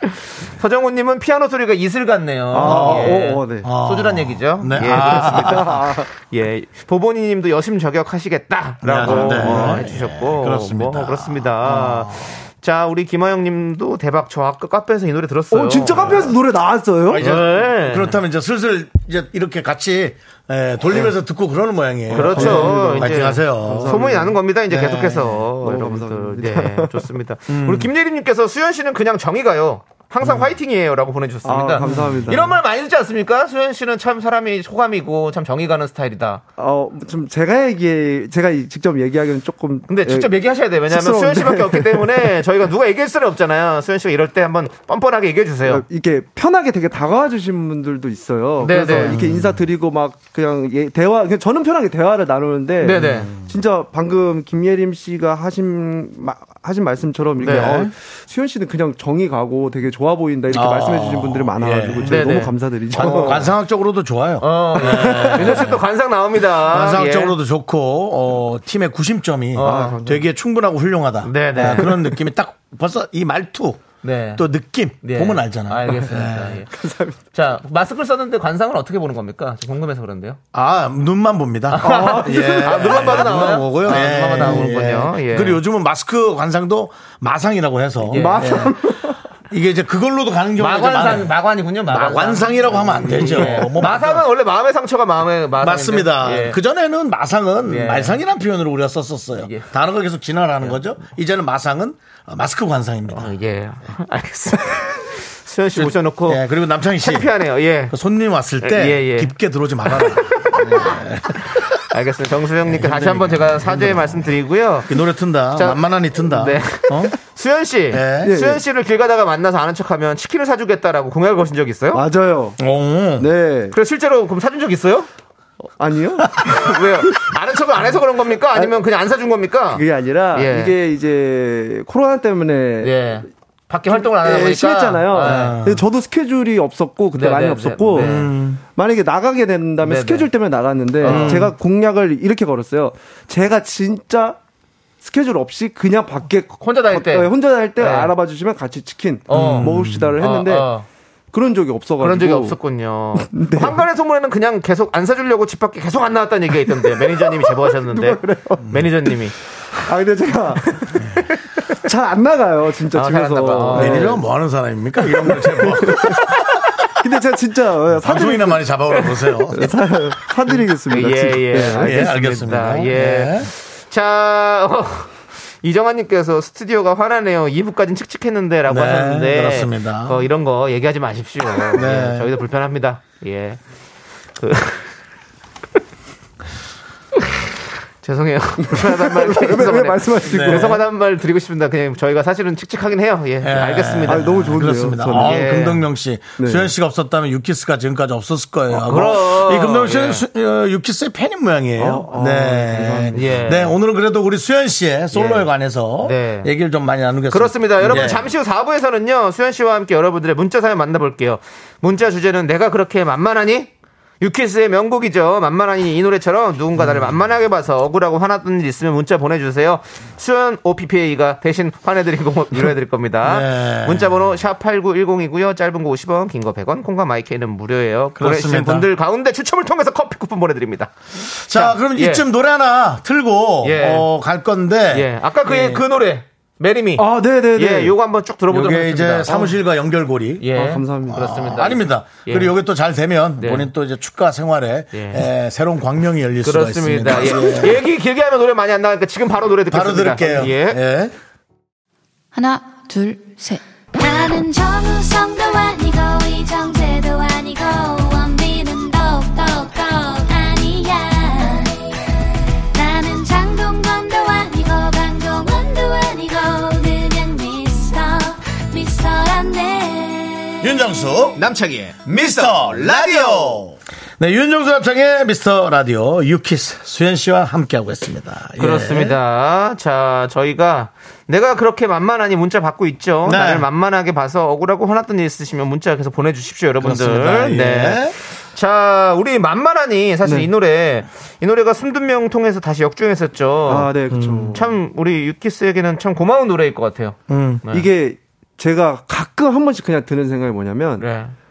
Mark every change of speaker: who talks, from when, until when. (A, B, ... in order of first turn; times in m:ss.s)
0:00.6-0:16.3 A
0:02.5-0:03.7 B
0:02.6-0:05.8 C
0:04.8-0:06.1 B
0:08.8-0:12.4 C
0:09.0-0:09.9 B
0:15.5-0:17.2 B
0:17.1-0:24.1 C
0:17.2-0:18.2 A
0:22.1-0:24.9 B
0:22.1-0:36.4 A
0:24.7-0:25.2 C
0:25.5-0:27.1 B
0:27.5-0:27.9 C
0:31.4-0:32.6 B
0:31.8-0:32.4 C
0:36.6-0:40.3 B
0:39.9-0:45.8 A
0:40.9-0:42.3 B
0:45.7-1:03.5 B
0:48.6-0:49.2 A
0:49.0-0:49.6 C
0:52.8-0:53.3 A
0:52.9-0:53.5 C
0:57.4-0:57.9 A
0:57.4-0:57.9 C
1:00.5-1:02.4 C
1:02.0-1:03.5 A
1:02.9-1:05.8 C
1:04.4-1:07.4 A
1:04.8-1:05.8 B
1:06.6-1:16.6 C
1:09.6-1:10.0 A
1:09.6-1:10.2 B
1:11.2-1:11.9 A
1:11.6-1:12.1 B
1:14.0-1:14.5 A
1:15.0-1:16.7 A
1:16.7-1:17.2 B
1:17.3-1:20.4 A
1:20.5-1:28.8 C
1:21.7-1:25.6 A
1:21.8-1:24.7 B
1:28.1-1:28.7 A
1:28.1-1:29.2 B
1:29.5-1:31.3 C
1:30.6-1:36.6 A
1:31.9-1:34.3 C
1:33.2-1:33.6 B
1:35.6-1:43.4 C
1:37.6-1:38.2 A
1:39.4-1:39.7 A
1:43.1-1:48.0 A
1:45.8-1:47.3 C
1:47.9-1:51.8 C
1:48.6-1:49.3 A
1:49.9-1:55.0 A
1:52.6-1:54.3 C
1:54.9-1:57.2 C
1:55.6-2:02.0 A
1:57.9-1:58.3 C
1:58.2-1:58.6 B
2:01.9-2:02.6 B
2:02.6-2:03.3 C
2:03.2-2:03.8 B
2:03.7-2:05.1 A
2:05.8-2:07.1 B
2:06.4-2:10.8 A
2:09.7-2:13.0 B
2:12.8-2:15.6 A
2:13.9-2:24.4 B
2:15.2-2:15.9 C
2:17.1-2:18.3 A
2:17.9-2:18.6 C
2:19.8-2:20.3 A
2:21.0-2:21.5 A
2:21.0-2:21.5 C
2:25.0-2:30.7 B
2:26.6-2:28.1 A
2:29.3-2:30.9 A
2:29.3-2:30.2 C
2:31.3-2:32.6 B
2:32.0-2:39.4 A
2:33.2-2:33.8 B
2:36.9-2:38.7 B
2:38.6-2:38.9 C
2:39.8-2:44.2 B
2:42.9-2:44.2 A
2:43.7-2:46.8 C
2:45.0-2:46.4 B
2:47.0-2:48.6 B
2:47.9-2:49.8 C
2:49.5-2:52.2 B
2:50.9-3:03.6 A
2:51.8-2:53.5 C
2:58.7-3:00.2 C
3:01.7-3:02.3 C
3:04.4-3:04.9 A
3:08.0-3:14.3 A
3:08.6-3:10.8 B
3:10.2-3:10.8 C
3:13.4-3:28.3 C
3:14.1-3:15.5 B
3:15.1-3:15.8 A
3:16.4-3:16.7 B
3:18.7-3:20.2 A
3:21.8-3:23.4 B
3:23.1-3:23.8 A
3:25.1-3:25.5 A
3:26.0-3:26.5 A
3:27.3-3:33.7 A
3:34.2-3:52.2 A
3:36.8-3:37.2 C
3:43.2-3:44.2 C
3:48.2-3:48.9 C
3:51.4-3:55.8 C
3:53.6-3:54.1 A
3:54.9-3:59.6 A
3:57.0-3:58.0 B
3:58.5-4:00.4 C
4:00.4-4:02.6 A
4:00.5-4:01.3 B
4:01.1-4:07.8 C
4:03.4-4:03.7 A
4:04.9-4:05.3 A
4:06.4-4:10.8 A
4:09.7-4:11.1 C
4:12.4-4:21.9 D
4:22.7-4:30.8 D
4:30.6-4:31.4 C
4:31.4-4:33.7 A
4:32.0-4:39.2 C
4:38.6-4:53.9 A
4:43.2-4:43.7 C
4:46.8-4:48.2 C
4:50.2-4:50.5 B
4:53.7-4:54.7 B
4:54.1-4:54.6 C
4:54.5-4:57.9 A
4:57.3-4:57.6 C
4:57.7-5:01.0 B
5:01.0-5:01.3 A